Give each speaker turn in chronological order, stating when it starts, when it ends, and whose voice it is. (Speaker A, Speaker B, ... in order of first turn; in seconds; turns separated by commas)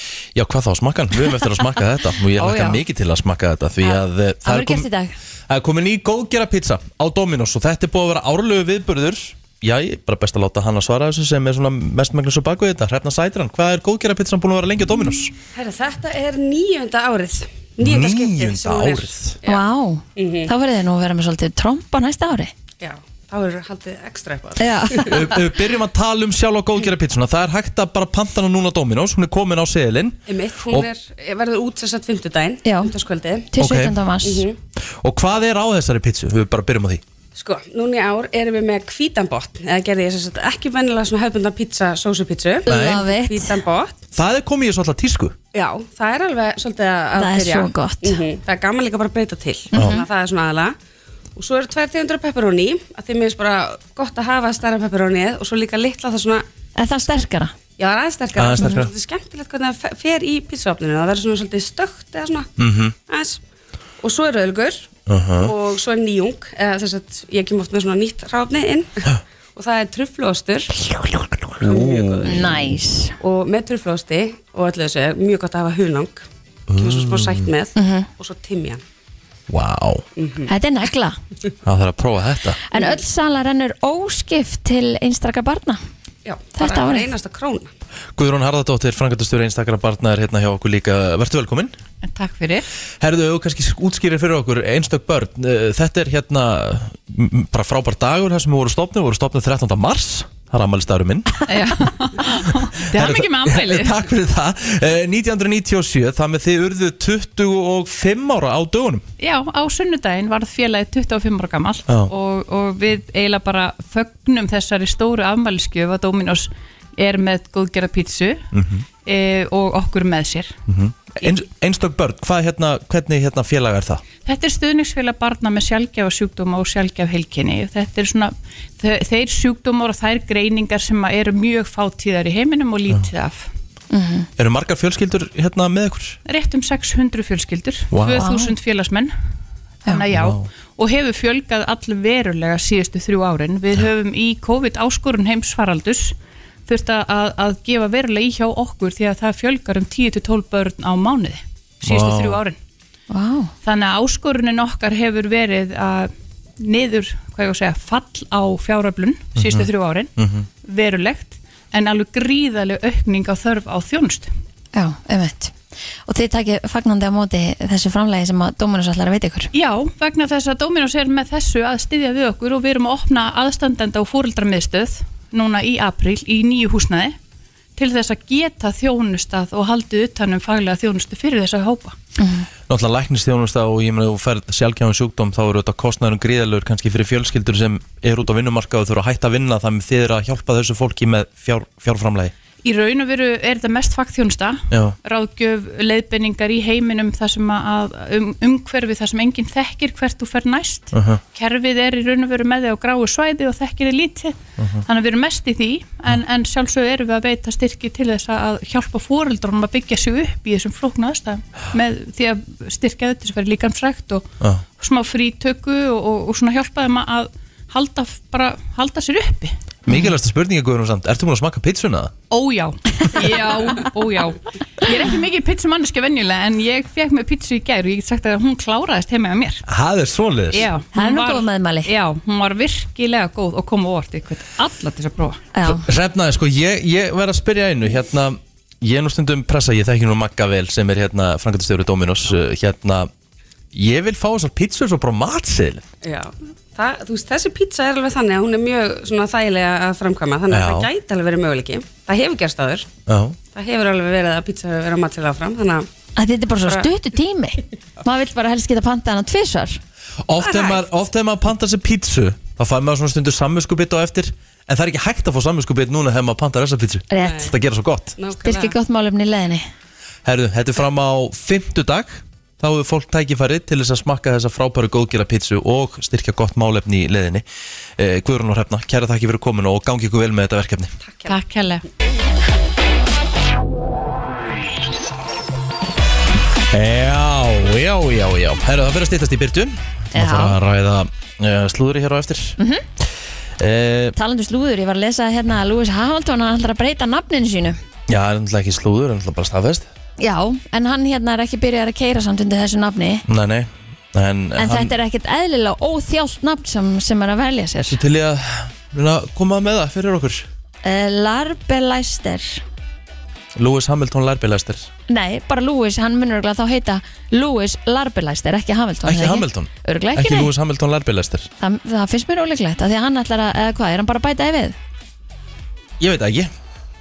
Speaker A: 0.3-4.9, Speaker B: 2.4-2.8, Speaker B: 3.8-5.2, Speaker A: 5.5-15.3, Speaker C: 15.6-19.6, Speaker A: 17.8-19.4, Speaker B: 19.5-22.5, Speaker C: 20.2-20.5, Speaker C: 22.8-25.1, Speaker B: 24.6-25.4, Speaker A: 25.0-30.9, Speaker C: 30.3-33.5, Speaker B: 32.6-32.9, Speaker B: 33.5-34.5, Speaker A: 33.6-34.0, Speaker C: 34.2-34.6, Speaker A: 35.0-37.0, Speaker C: 37.4-44.0, Speaker B: 42.7-43.6, Speaker A: 42.7-43.0, Speaker A: 44.1-45.4, Speaker C: 45.5-50.7, Speaker B: 47.1-48.2, Speaker B: 49.7-50.1, Speaker C: 51.4-56.4, Speaker B: 56.8-57.5, Speaker C: 57.8-62.5, Speaker A: 58.4-58.9, Speaker A: 62.6-62.9, Speaker C: 63.1-63.4, Speaker C: 64.0-64.9, Speaker A: 65.1-65.5, Speaker C: 65.4-69.0, Speaker C: 69.5-70.7, Speaker A: 71.6-72.1, Speaker C: 71.6-72.5, Speaker B: 72.2-73.2, Speaker C: 73.2-76.2, Speaker A: 76.7-77.5, Speaker C: 76.8-78.8, Speaker B: 77.8-78.1, Speaker A: 79.5-80.0, Speaker C: 80.2-80.5, Speaker B: 80.5-81.2, Speaker A: 81.6-82.6, Speaker B: 82.7-85.8, Speaker C: 82.7-83.0, Speaker C: 86.2-87.7, Speaker B: 86.6-87.1, Speaker A: 88.2-91.7, Speaker D: 92.0-92.7, Speaker A: 93.0-101.4, Speaker D: 101.5-104.0, Speaker A: 102.9-109.0, Speaker D: 109.2-118.5, Speaker A: 118.5-118.8, Speaker D: 119.0-120.6, Speaker A: 120.7-124.0, Speaker D: 124.2-133.5, Speaker B: 133.9-134.3, Speaker A: 134.4-136.2, Speaker D: 136.3-139.1, Speaker A: 137.9-138.2, Speaker B: 138.1-138.5, Speaker D: 139.9-146.2, Speaker A: 140.1-140.5, Speaker D: 146.7-152.6, Speaker A: 151.8-152.4, Speaker B: 153.1-153.5, Speaker D: 153.7-160.1, Speaker A: 159.4-160.5, Speaker D: 160.6-164.3, Speaker B: 164.7-165.6, Speaker B: 166.1-169.5, Speaker D: 169.5-177.2, Speaker D: 177.8-182.0, Speaker B: 182.2-182.5, Speaker A: 182.7-192.3, Speaker D: 192.6-214.3, Speaker A: 194.7-195.0, Speaker A: 200.9-201.2, Speaker A: 204.6-204.8, Speaker D: 214.8-219.6, Speaker A: 219.9-222.1, Speaker B: 219.9-220.1, Speaker D: 222.3-229.6, Speaker A: 229.7-230.7, Speaker D: 230.5-235.4, Speaker B: 230.9-231.9, Speaker B: 235.5-235.9, Speaker A: 235.7-243.1, Speaker A: 243.7-245.8, Speaker C: 246.0-252.9, Speaker A: 250.5-250.9, Speaker A: 253.1-253.4, Speaker C: 253.5-255.9, Speaker B: 256.2-259.8, Speaker A: 260.3-268.1, Speaker C: 260.4-260.9, Speaker B: 267.1-267.5, Speaker C: 267.2-267.5, Speaker C: 268.2-268.8, Speaker B: 268.4-269.6, Speaker A: 270.2-277.4, Speaker A: 278.0-280.9, Speaker C: 281.0-281.4, Speaker D: 281.2-281.8, Speaker A: 286.7-292.6, Speaker B: 290.1-290.6, Speaker B: 292.6-292.9, Speaker A: 293.6-294.1, Speaker B: 294.2-297.8, Speaker A: 298.1-299.9, Speaker B: 300.2-303.2, Speaker A: 303.3-304.9, Speaker B: 304.6-308.0, Speaker A: 307.9-310.5, Speaker B: 310.8-312.6, Speaker A: 313.6-314.9, Speaker B: 315.1-320.5, Speaker A: 319.1-321.5, Speaker B: 321.6-324.8, Speaker A: 326.0-326.5